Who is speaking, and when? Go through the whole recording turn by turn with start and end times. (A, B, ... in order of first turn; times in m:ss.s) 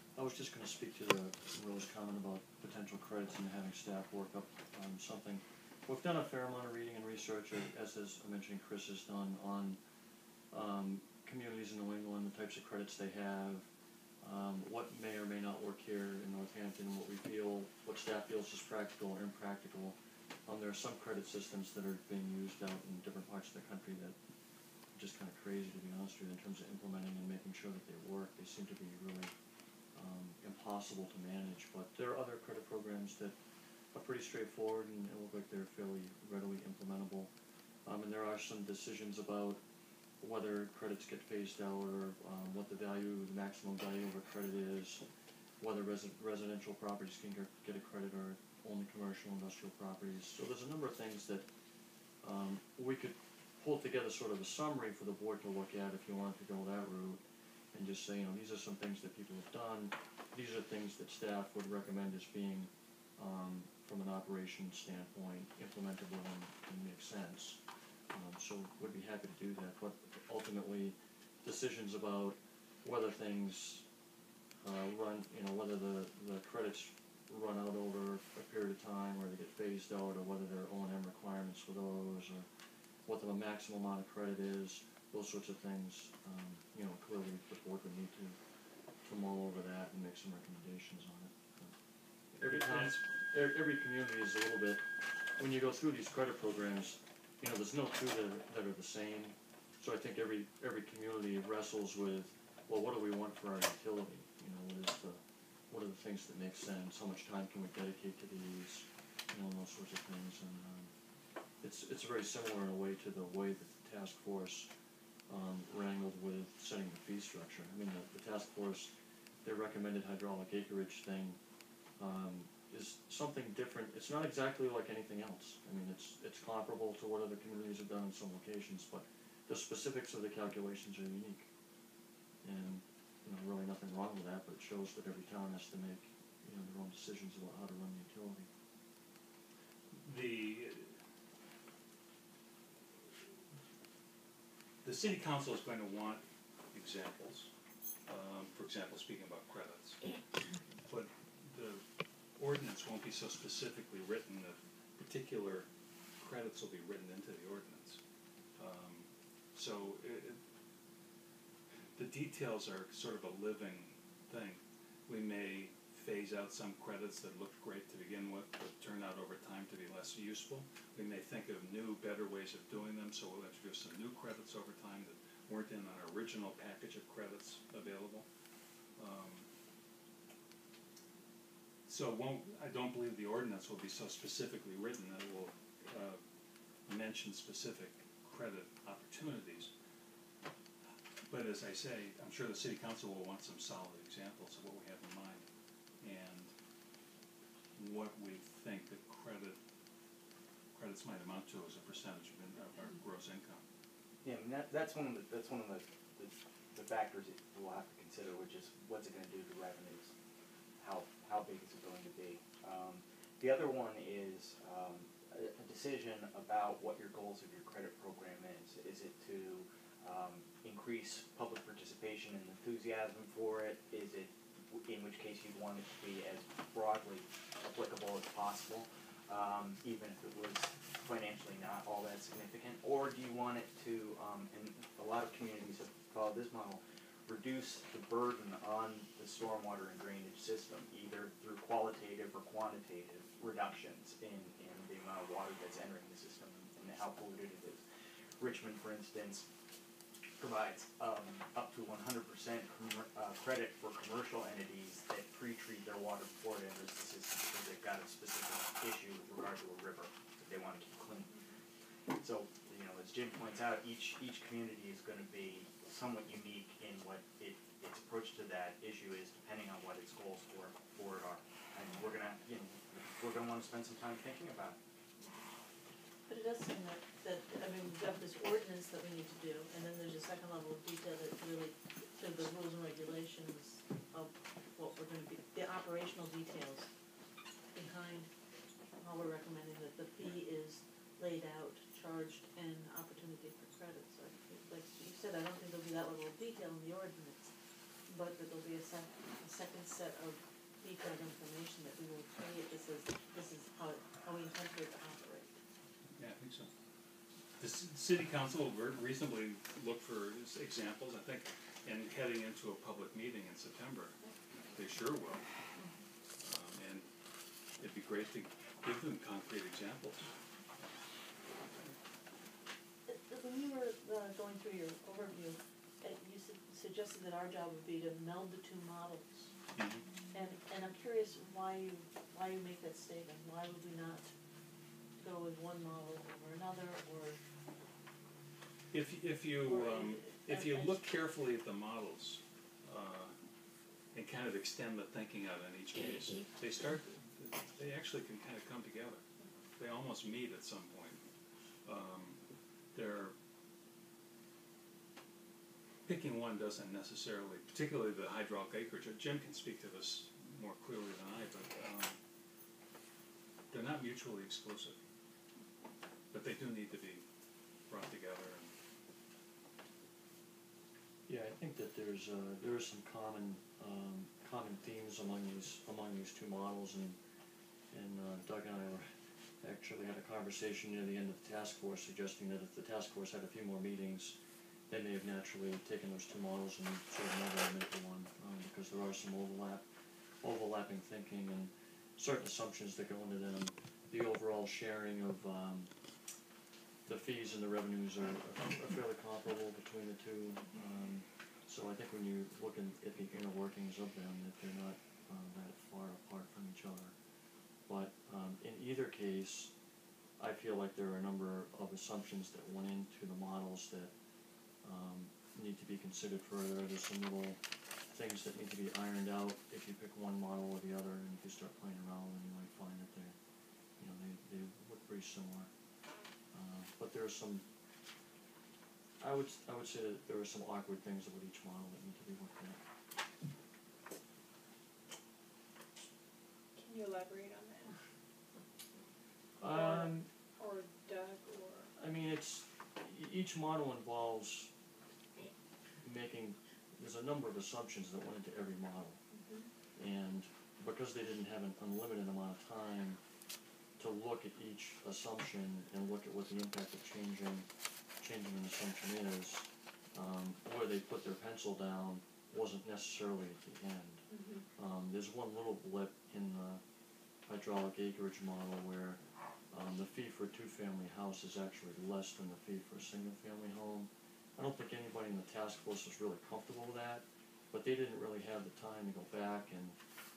0:00.1-0:09.8 A
0:10.5-0:13.7 A
0:14.2-0:24.2 A
0:24.9-0:29.3 A
0:29.9-0:33.4 A
0:33.9-0:37.3 A
0:37.8-0:39.6 A
0:40.2-0:45.0 A
0:45.6-0:51.5 A
0:52.2-0:57.2 A
0:57.7-1:07.6 A
1:08.1-1:13.8 A
1:14.6-1:22.5 A
1:23.0-1:28.4 A
1:29.0-1:31.7 A
1:32.3-1:34.8 A
1:32.4-1:33.0 B
1:35.4-1:50.9 A
1:51.6-1:54.7 A
1:55.3-2:01.4 A
2:02.0-2:11.5 A
2:12.4-2:18.5 A
2:20.0-2:21.0 B
2:24.8-2:27.5 B
2:28.0-2:30.1 B
2:30.8-2:31.8 B
2:32.4-2:35.7 B
2:36.2-2:38.0 B
2:38.6-2:40.4 B
2:42.0-2:58.2 B
2:59.0-2:59.4 B
3:01.9-3:06.2 B
3:06.9-3:09.7 B
3:11.3-3:15.4 B
3:16.0-3:16.5 B
3:17.7-3:19.6 B
3:20.7-3:23.6 B
3:24.2-3:30.1 C
3:30.8-4:07.8 C
4:08.4-4:09.5 C
4:10.4-4:21.3 C
4:22.2-4:34.8 C
4:36.3-4:46.9 D
4:47.7-4:48.3 D
4:49.0-4:57.5 D
4:58.1-5:05.6 D
5:06.2-5:06.7 B
5:07.6-5:14.2 B
5:14.7-5:15.4 B
5:16.4-5:17.1 B
5:17.8-5:20.3 B
5:23.0-5:29.5 D
5:29.8-5:30.0 B
5:30.3-5:34.3 D
5:35.2-5:37.4 D
5:38.9-5:43.4 B
5:39.6-5:41.0 D
5:44.1-5:49.2 B
5:49.8-5:51.2 B
5:51.8-5:52.4 B
5:52.9-5:53.3 B
5:56.0-6:02.2 B
6:03.7-6:05.0 B
6:06.3-6:07.2 B
6:07.9-6:08.7 B
6:11.3-6:17.2 A
6:17.9-6:19.1 A
6:19.6-6:24.4 A
6:24.9-6:29.8 A
6:30.4-6:35.9 A
6:37.0-6:47.1 A
6:47.9-6:49.7 A
6:50.4-6:54.1 A
6:54.8-7:03.4 A
7:04.0-7:05.7 A
7:06.5-7:07.7 A
7:09.2-7:12.8 A
7:16.7-7:17.9 E
7:19.6-7:20.3 A
7:19.7-7:21.9 E
7:22.0-7:24.7 A
7:26.0-7:29.2 A
7:29.3-7:29.7 E
7:30.0-7:33.2 A
7:34.0-7:37.7 A
7:38.2-7:44.2 A
7:44.3-7:44.6 E
7:44.8-7:46.8 A
7:47.4-7:49.2 A
7:49.7-8:00.0 A